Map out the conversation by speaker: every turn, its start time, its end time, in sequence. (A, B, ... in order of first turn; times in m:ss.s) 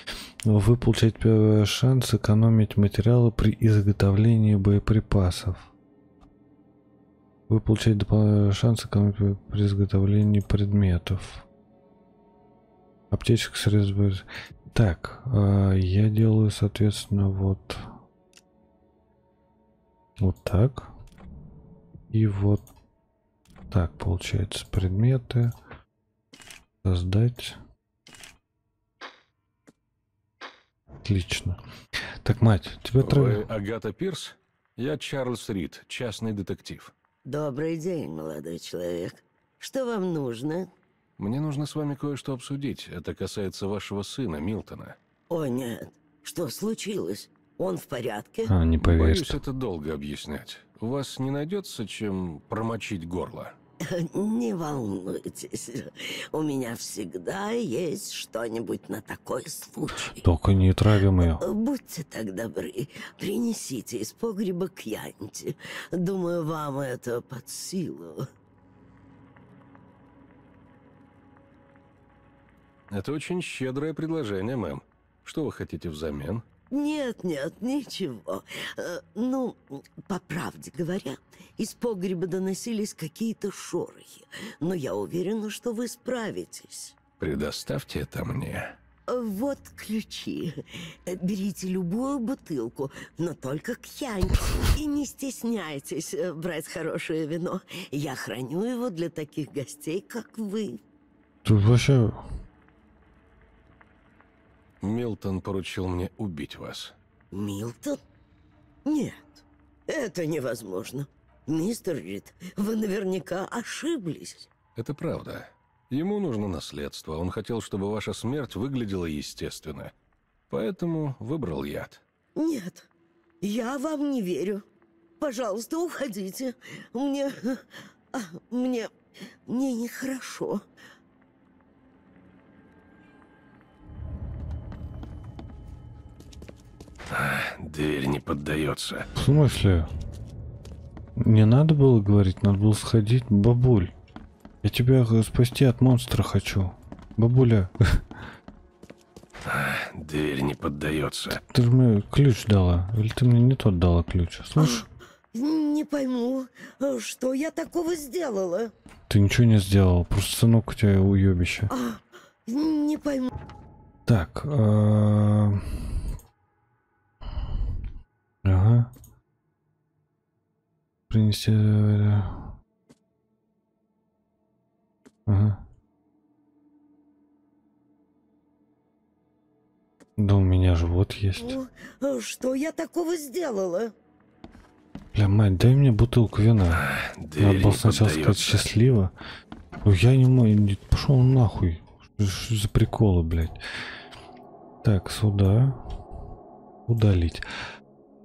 0:00.4-0:05.7 A
0:07.5-0:11.4 A
0:13.1-0:17.9 A
0:20.2-0:20.9 A
0:22.1-0:22.6 A
0:23.7-0:25.5 A
0:26.8-0:27.6 A
0:31.0-0:31.6 A
0:32.2-0:33.4 A
0:33.0-0:36.9 B
0:37.2-0:40.7 C
0:41.2-0:45.0 B
0:45.3-0:48.5 C
0:48.4-0:49.4 A
0:48.8-0:53.6 B
0:53.8-1:00.2 C
1:00.2-1:01.4 A
1:01.2-1:08.3 C
1:12.9-1:16.4 B
1:16.7-1:26.9 C
1:27.2-1:28.8 B
1:29.1-1:40.8 C
1:41.4-1:42.2 A
1:44.8-1:46.9 B
1:47.3-1:48.0 C
1:48.8-1:54.5 C
1:54.8-1:59.9 B
2:00.5-2:02.0 B
2:02.4-2:02.9 C
2:03.4-2:04.6 C
2:05.2-2:08.9 C
2:09.4-2:10.6 C
2:17.1-2:19.1 B
2:19.2-2:19.9 A
2:21.2-2:23.9 A
2:24.6-2:28.0 A
2:29.4-2:31.4 B
2:31.3-2:34.9 A
2:34.6-2:38.7 C
2:39.1-2:41.7 A
2:41.7-2:43.3 C
2:44.0-2:45.9 A
2:48.4-2:48.9 A
2:51.1-2:52.4 A
2:55.2-2:55.6 A
3:00.2-3:01.6 A
3:01.4-3:03.9 C
3:05.1-3:06.9 A
3:06.8-3:08.7 B
3:07.4-3:09.1 A
3:09.8-3:13.6 A
3:14.8-3:15.8 A
3:16.9-3:17.4 A